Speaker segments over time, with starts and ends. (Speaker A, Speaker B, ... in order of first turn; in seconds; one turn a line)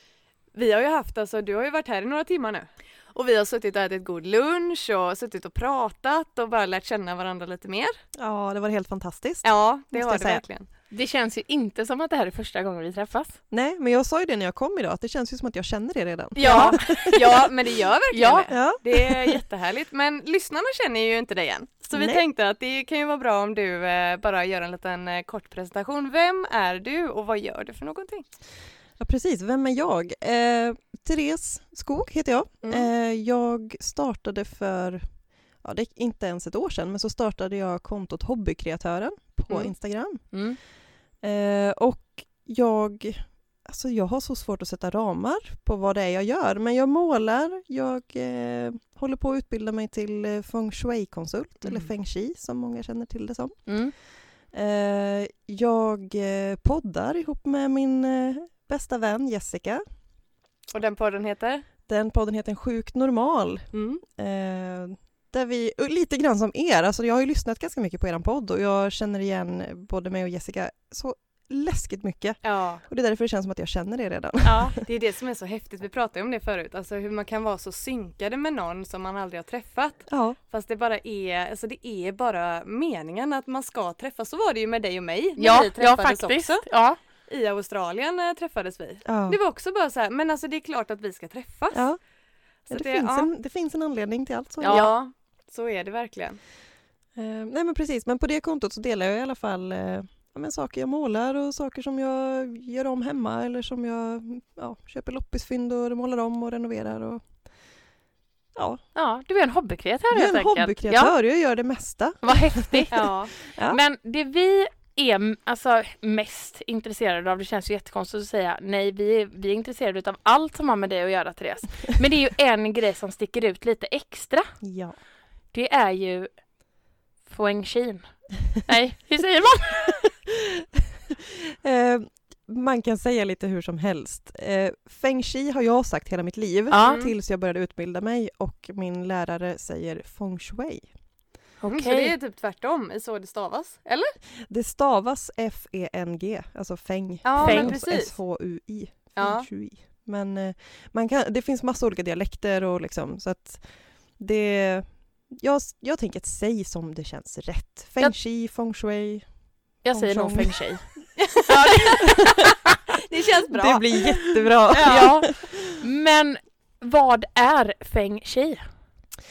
Speaker A: 0.5-8.0
Speaker B: 8.2-10.4
Speaker A: 9.4-10.7
Speaker C: 10.9-13.4
Speaker B: 13.5-17.4
Speaker A: 16.4-28.3
Speaker C: 16.4-17.2
Speaker C: 18.1-18.5
Speaker B: 18.5-19.4
Speaker B: 21.9-22.2
Speaker B: 29.0-59.8
Speaker A: 32.6-32.9
Speaker A: 39.5-39.7
Speaker C: 40.3-40.6
Speaker A: 51.6-51.9
Speaker C: 53.6-53.9
Speaker A: 60.7-61.7
Speaker B: 61.9-74.8
Speaker A: 63.7-64.0
Speaker A: 72.4-72.8
Speaker C: 74.4-74.8
Speaker A: 74.8-91.9
Speaker B: 80.1-80.4
Speaker C: 85.4-87.0
Speaker B: 89.0-89.4
Speaker B: 91.7-92.0
Speaker A: 92.7-93.3
Speaker B: 92.7-94.9
Speaker C: 94.6-94.9
Speaker A: 94.7-96.4
Speaker B: 97.2-107.7
Speaker B: 108.5-108.8
Speaker C: 108.9-111.1
Speaker B: 110.1-113.8
Speaker C: 112.2-124.6
Speaker A: 112.9-113.3
Speaker B: 124.6-125.0
Speaker C: 125.5-126.6
Speaker C: 127.2-130.1
Speaker B: 130.5-140.9
Speaker C: 136.7-137.0
Speaker A: 136.8-137.1
Speaker C: 141.6-142.1
Speaker A: 141.7-144.1
Speaker B: 144.4-161.1
Speaker A: 147.2-148.2
Speaker C: 147.4-147.8
Speaker A: 149.2-149.5
Speaker C: 159.8-162.2
Speaker A: 161.2-162.1
Speaker A: 163.1-165.3
Speaker B: 163.5-165.5
Speaker C: 164.8-168.7